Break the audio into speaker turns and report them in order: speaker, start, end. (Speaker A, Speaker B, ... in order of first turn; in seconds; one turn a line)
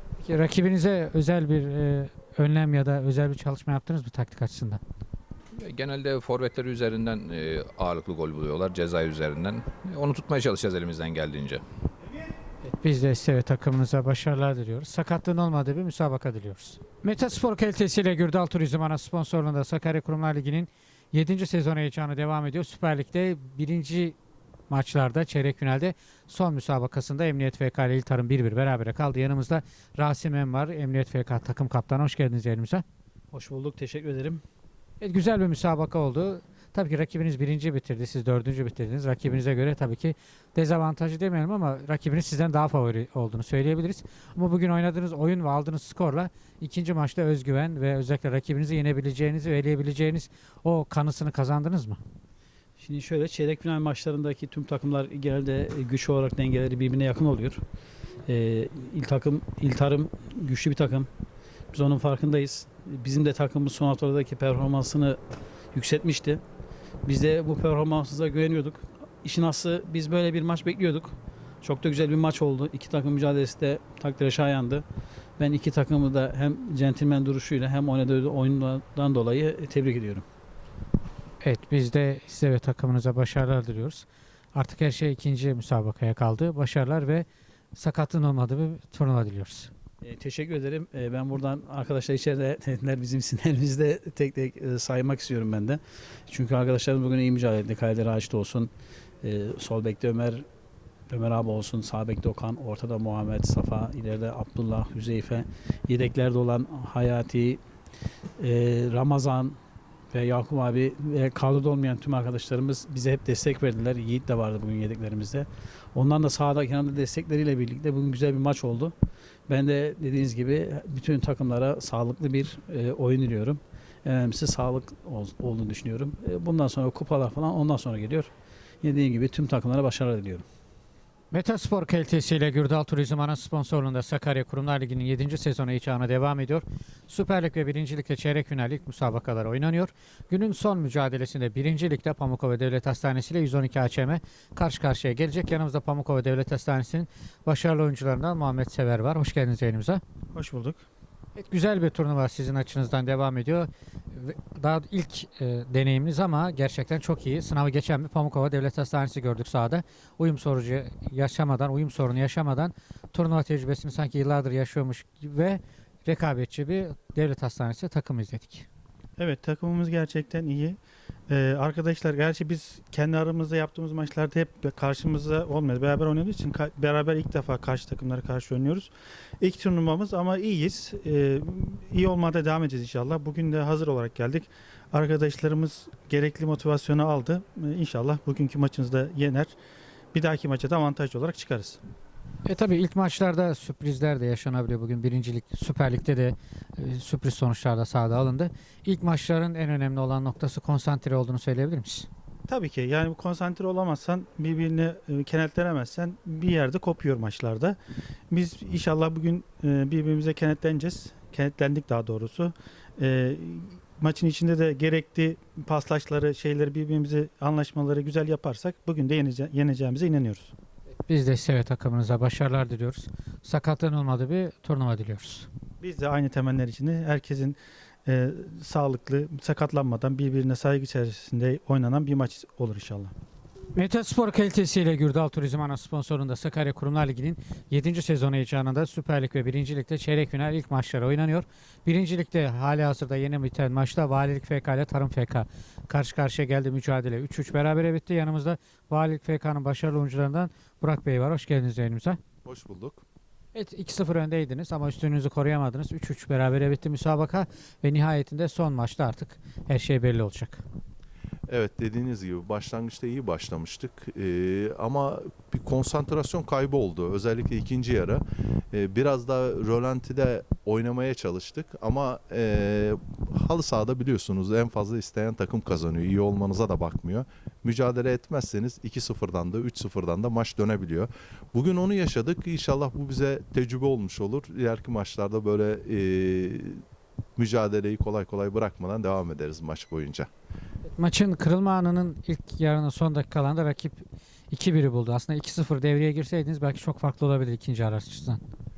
Speaker A: 0.2-4.8
Speaker B: 5.6-11.6
Speaker A: 12.7-24.1
Speaker A: 24.7-32.8
Speaker C: 33.3-34.4
Speaker A: 35.0-52.0
Speaker C: 52.8-57.6
Speaker C: 58.3-61.1
Speaker C: 61.7-65.2
Speaker C: 65.7-66.4
Speaker C: 67.0-74.8
Speaker C: 75.4-80.3
Speaker A: 81.4-89.7
Speaker C: 90.0-98.7
Speaker C: 99.2-100.5
Speaker C: 101.1-107.6
Speaker C: 108.4-109.6
Speaker C: 110.1-118.9
Speaker C: 119.5-130.4
Speaker A: 131.3-150.0
Speaker D: 150.3-150.8
Speaker A: 151.4-168.7
Speaker D: 169.2-170.8
Speaker D: 171.3-189.6
Speaker D: 190.1-191.8
Speaker A: 192.5-202.1
Speaker D: 202.5-207.8
Speaker D: 208.3-220.5
Speaker A: 221.0-225.5
Speaker D: 225.8-233.1
Speaker A: 233.8-252.2
Speaker E: 252.4-253.0
Speaker A: 253.5-260.6
Speaker E: 261.5-286.8
Speaker E: 287.4-290.3
Speaker A: 291.0-298.4